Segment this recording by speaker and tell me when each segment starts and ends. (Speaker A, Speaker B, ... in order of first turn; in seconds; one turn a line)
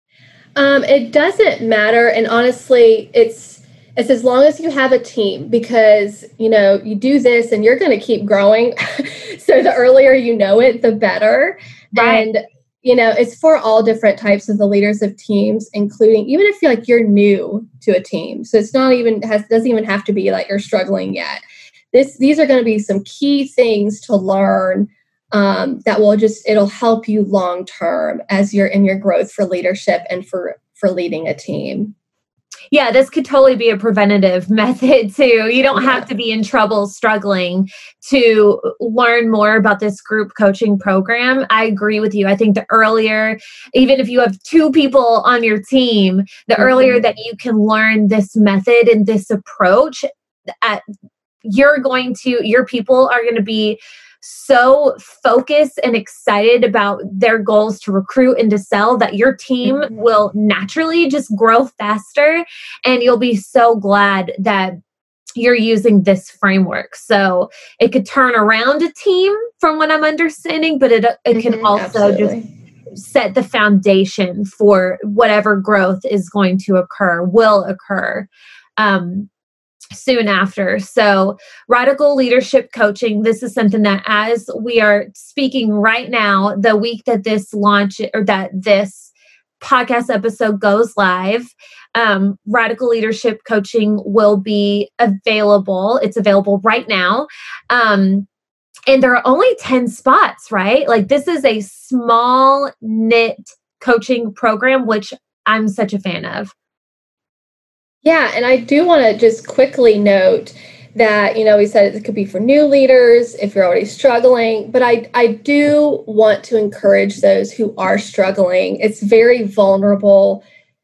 Speaker A: 0.6-31.9
Speaker B: 11.9-12.3
Speaker B: 32.7-50.0
Speaker A: 35.7-36.0
Speaker A: 46.6-47.0
Speaker B: 51.4-64.8
Speaker B: 65.4-72.3
Speaker A: 71.3-72.5
Speaker B: 72.9-79.3
Speaker B: 79.9-98.3
Speaker B: 98.9-106.5
Speaker A: 108.0-120.4